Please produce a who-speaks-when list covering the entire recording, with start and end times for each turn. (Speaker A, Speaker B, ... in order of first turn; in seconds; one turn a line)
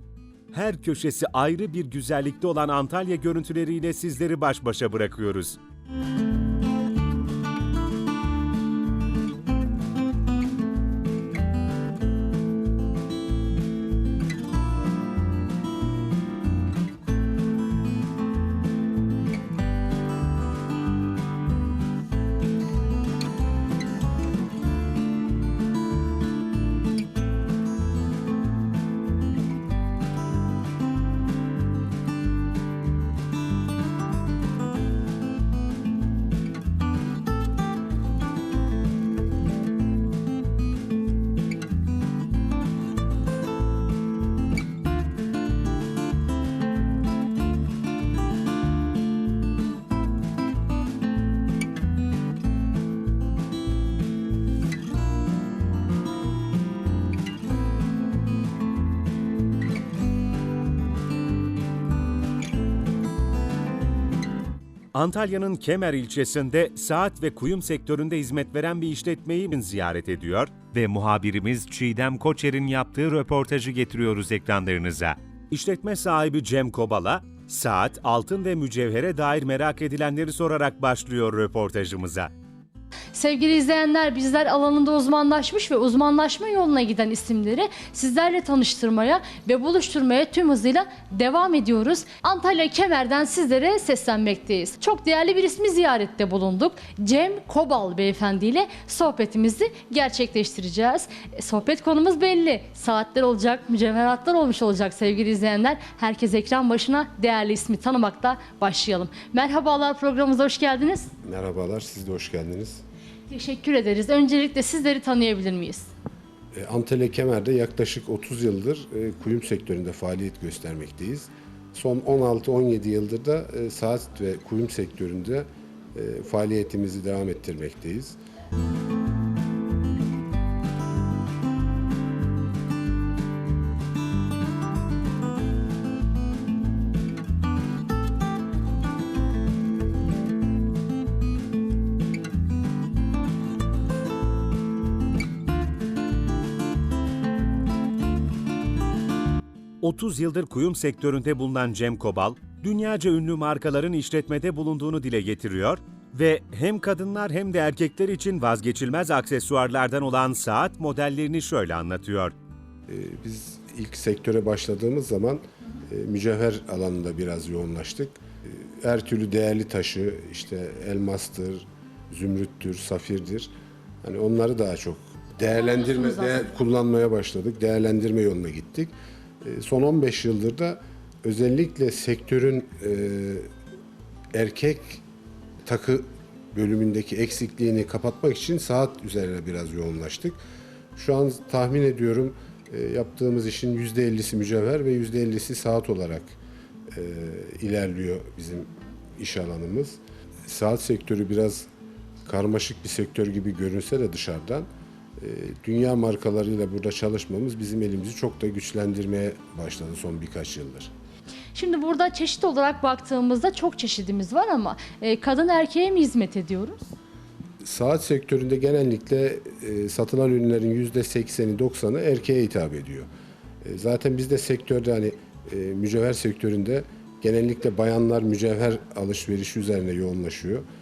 Speaker A: 0.5-5.6
Speaker A: 64.9-82.3
Speaker B: 83.1-111.1
Speaker C: 111.2-112.8
Speaker B: 113.3-115.9
Speaker C: 116.5-128.2
Speaker A: 149.8-162.3
Speaker C: 162.9-183.5
Speaker B: 175.5-176.5
Speaker C: 184.3-185.0
Speaker C: 185.7-190.4
Speaker C: 190.9-196.3
Speaker C: 196.9-201.7
Speaker C: 202.2-204.7
Speaker C: 205.2-210.9
Speaker B: 211.5-216.9
Speaker C: 217.6-223.1
Speaker C: 223.6-230.7